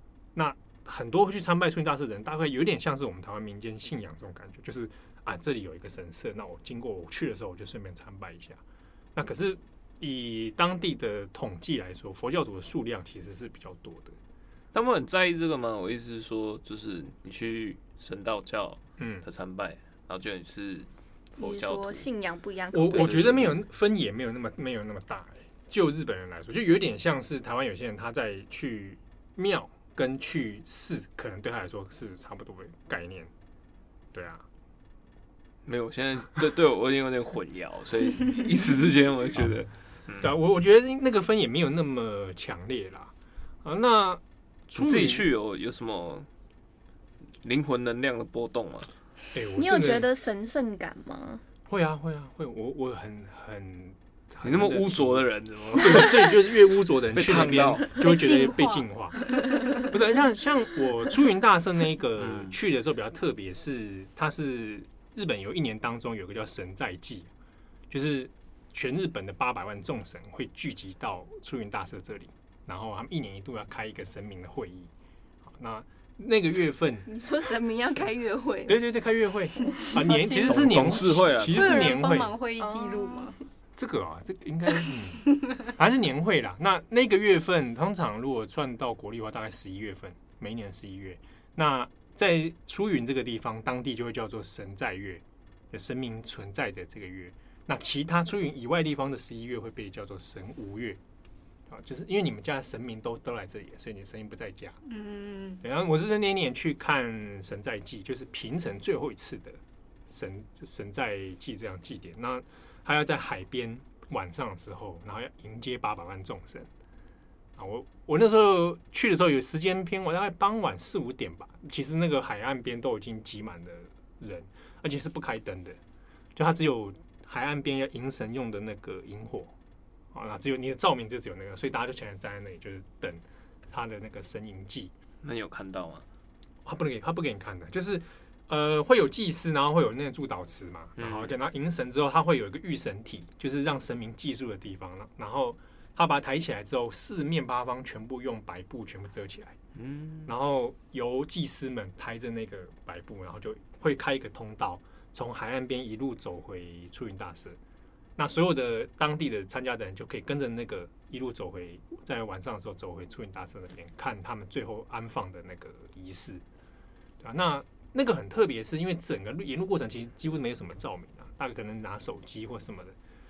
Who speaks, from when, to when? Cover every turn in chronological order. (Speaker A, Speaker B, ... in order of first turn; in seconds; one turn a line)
Speaker A: 0.3-8.6
Speaker A: 9.1-14.1
Speaker B: 14.7-22.1
Speaker A: 19.0-19.2
Speaker C: 21.4-23.4
Speaker A: 22.7-33.3
Speaker B: 22.9-23.6
Speaker A: 34.1-34.4
Speaker B: 35.6-40.3
Speaker A: 40.2-43.1
Speaker A: 43.6-45.2
Speaker B: 44.8-46.3
Speaker B: 47.4-48.9
Speaker A: 49.3-50.0
Speaker C: 49.5-51.4
Speaker A: 51.7-67.3
Speaker B: 54.4-56.6
Speaker B: 57.1-57.9
Speaker D: 58.0-58.9
Speaker D: 59.4-59.8
Speaker B: 62.2-62.6
Speaker A: 67.9-74.9
Speaker A: 75.5-77.1
Speaker C: 77.0-78.8
Speaker A: 78.7-82.3
Speaker D: 79.8-80.8
Speaker B: 80.4-81.9
Speaker D: 81.5-83.3
Speaker C: 82.6-83.3
Speaker A: 83.7-101.0
Speaker A: 101.7-104.8
Speaker D: 104.9-105.6
Speaker A: 105.6-116.7
Speaker A: 117.6-125.8
Speaker A: 126.3-129.5
Speaker A: 130.1-134.9
Speaker B: 135.2-136.0
Speaker A: 136.6-149.5
Speaker B: 141.0-141.3
Speaker B: 149.7-150.3
Speaker A: 150.2-157.6
Speaker A: 158.2-166.4
Speaker A: 167.2-172.9